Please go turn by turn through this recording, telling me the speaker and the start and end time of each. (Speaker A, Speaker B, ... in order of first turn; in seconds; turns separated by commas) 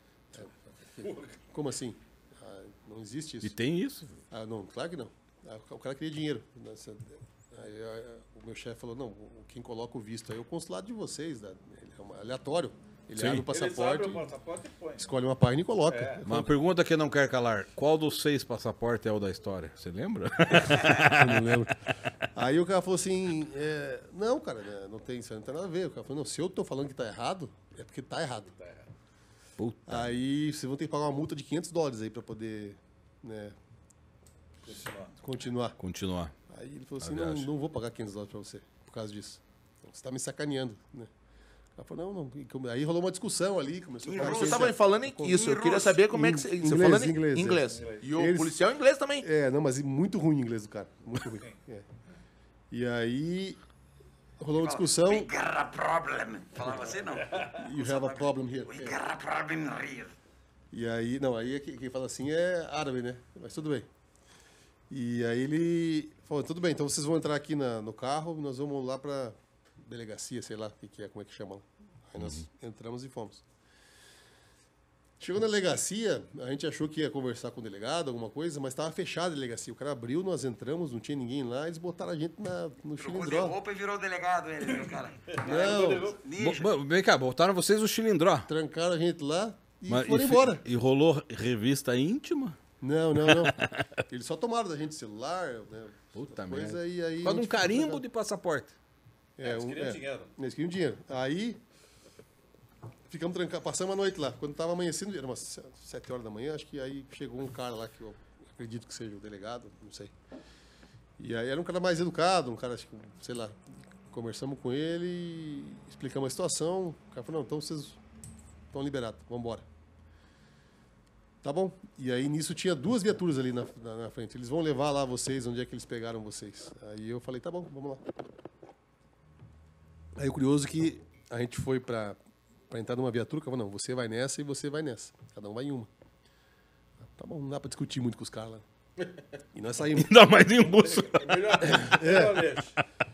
Speaker A: 0.3-3.6, Speaker B: 1.0-1.3, Speaker C: 3.4-4.1, Speaker A: 4.3-14.2, Speaker C: 13.2-13.5, Speaker B: 13.5-15.1, Speaker A: 15.0-16.5, Speaker B: 15.9-16.2, Speaker C: 16.2-21.5, Speaker A: 20.8-21.8, Speaker A: 22.4-28.5, Speaker B: 28.6-28.9, Speaker C: 29.6-30.1, Speaker A: 29.9-33.5, Speaker B: 34.7-35.1, Speaker A: 34.7-35.8, Speaker C: 35.8-36.3, Speaker A: 36.5-41.1, Speaker C: 37.0-37.5, Speaker A: 41.8-47.6, Speaker D: 44.0-44.7, Speaker E: 44.2-49.3, Speaker D: 45.3-45.9, Speaker B: 47.7-48.1, Speaker A: 48.1-48.6, Speaker A: 49.2-51.9, Speaker A: 52.7-53.6, Speaker A: 54.4-55.3, Speaker D: 54.6-60.1, Speaker A: 57.5-59.0, Speaker A: 60.7-63.9, Speaker A: 64.9-73.4, Speaker A: 75.2-83.6, Speaker D: 83.0-86.7, Speaker B: 85.3-86.2, Speaker A: 85.4-86.2, Speaker C: 86.4-88.5, Speaker A: 88.5-90.6, Speaker C: 89.9-92.6, Speaker A: 92.8-93.6, Speaker C: 93.2-94.0, Speaker A: 94.1-98.0, Speaker C: 96.1-98.7, Speaker A: 99.4-101.6, Speaker B: 99.4-100.3, Speaker A: 103.1-110.1, Speaker A: 111.2-118.0, Speaker A: 118.7-119.7, Speaker A: 121.4-128.0, Speaker A: 130.2-132.2, Speaker A: 132.7-135.9, Speaker A: 137.0-138.7, Speaker A: 139.5-140.1, Speaker C: 140.0-141.8, Speaker B: 141.1-142.8, Speaker E: 141.2-141.9, Speaker A: 141.6-142.6